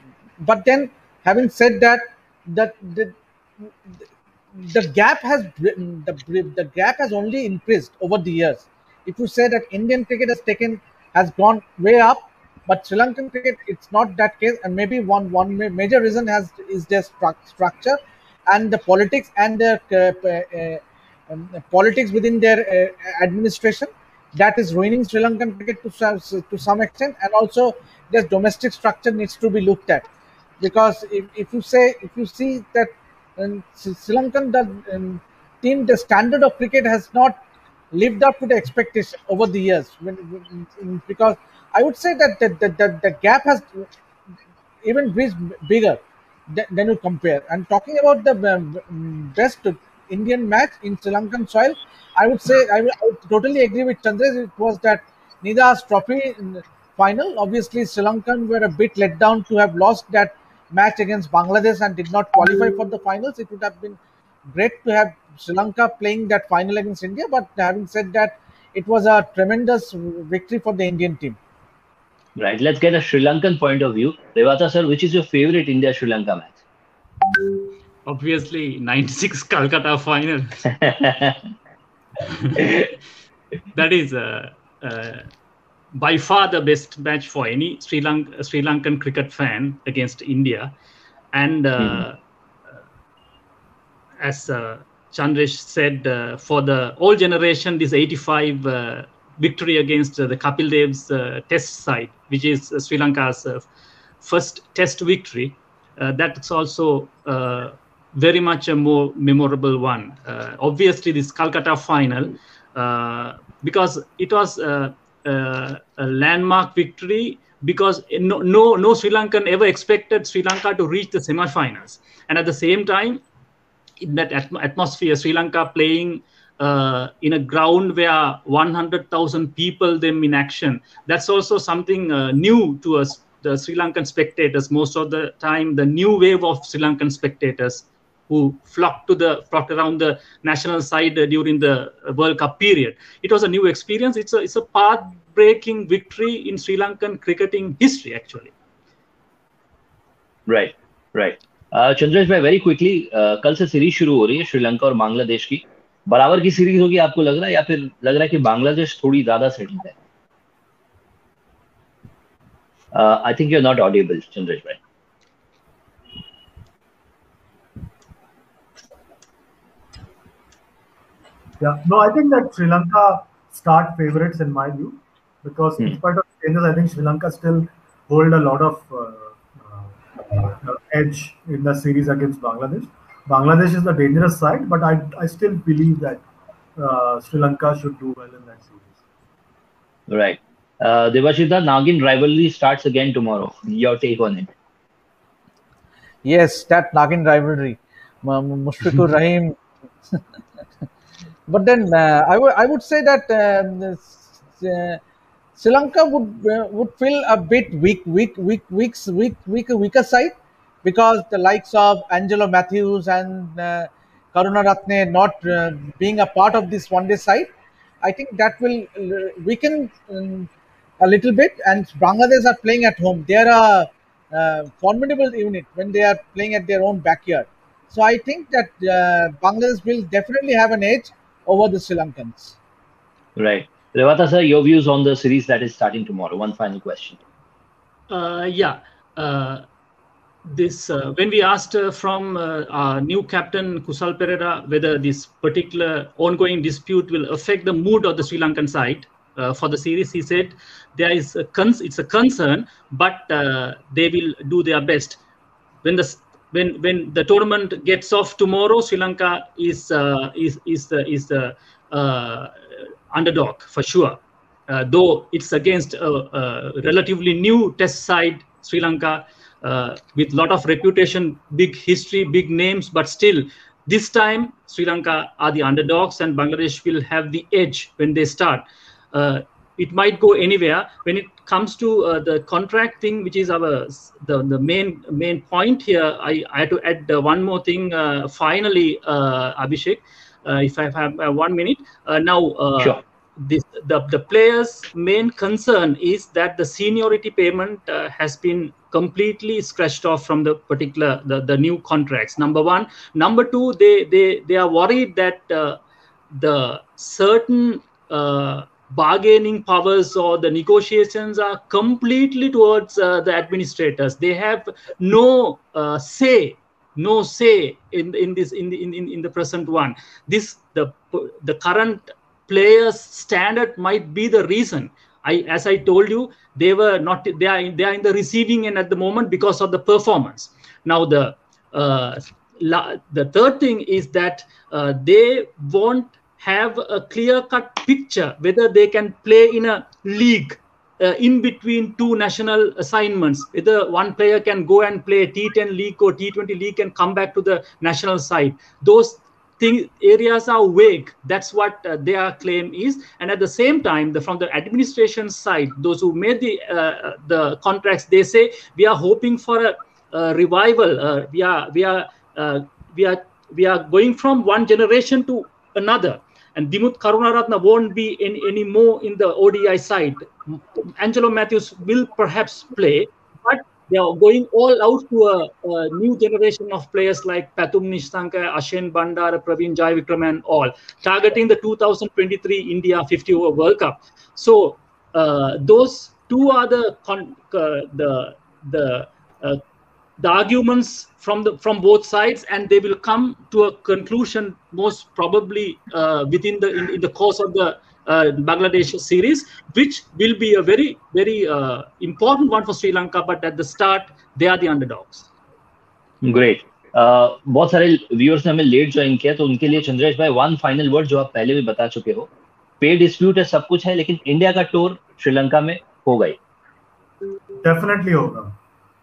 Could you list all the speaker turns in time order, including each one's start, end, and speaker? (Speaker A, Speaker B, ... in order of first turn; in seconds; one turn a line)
Speaker A: 0.4-3.1
Speaker A: 4.6-37.4
Speaker A: 37.9-43.9
Speaker A: 44.8-64.0
Speaker A: 64.5-71.4
Speaker B: 72.4-76.6
Speaker C: 78.1-80.7
Speaker B: 80.9-81.3
Speaker C: 82.2-82.7
Speaker C: 83.8-85.3
Speaker C: 86.0-90.7
Speaker C: 91.3-92.2
Speaker B: 91.8-92.0
Speaker C: 94.2-103.7
Speaker C: 104.2-123.2
Speaker C: 124.0-148.5
Speaker B: 150.5-159.9
Speaker B: 162.9-164.8
Speaker D: 171.6-186.2
Speaker D: 186.8-189.0
Speaker B: 190.1-194.5
Speaker A: 196.2-200.2
Speaker A: 201.5-205.0
Speaker A: 205.6-217.5
Speaker A: 218.0-232.6
Speaker B: 233.4-237.2
Speaker C: 238.1-239.7
Speaker C: 240.5-255.2
Speaker C: 255.8-262.5
Speaker C: 263.1-305.8
Speaker C: 306.3-389.6
Speaker C: 390.2-405.3
Speaker B: 406.2-412.3
Speaker B: 412.8-416.4
Speaker D: 417.6-418.5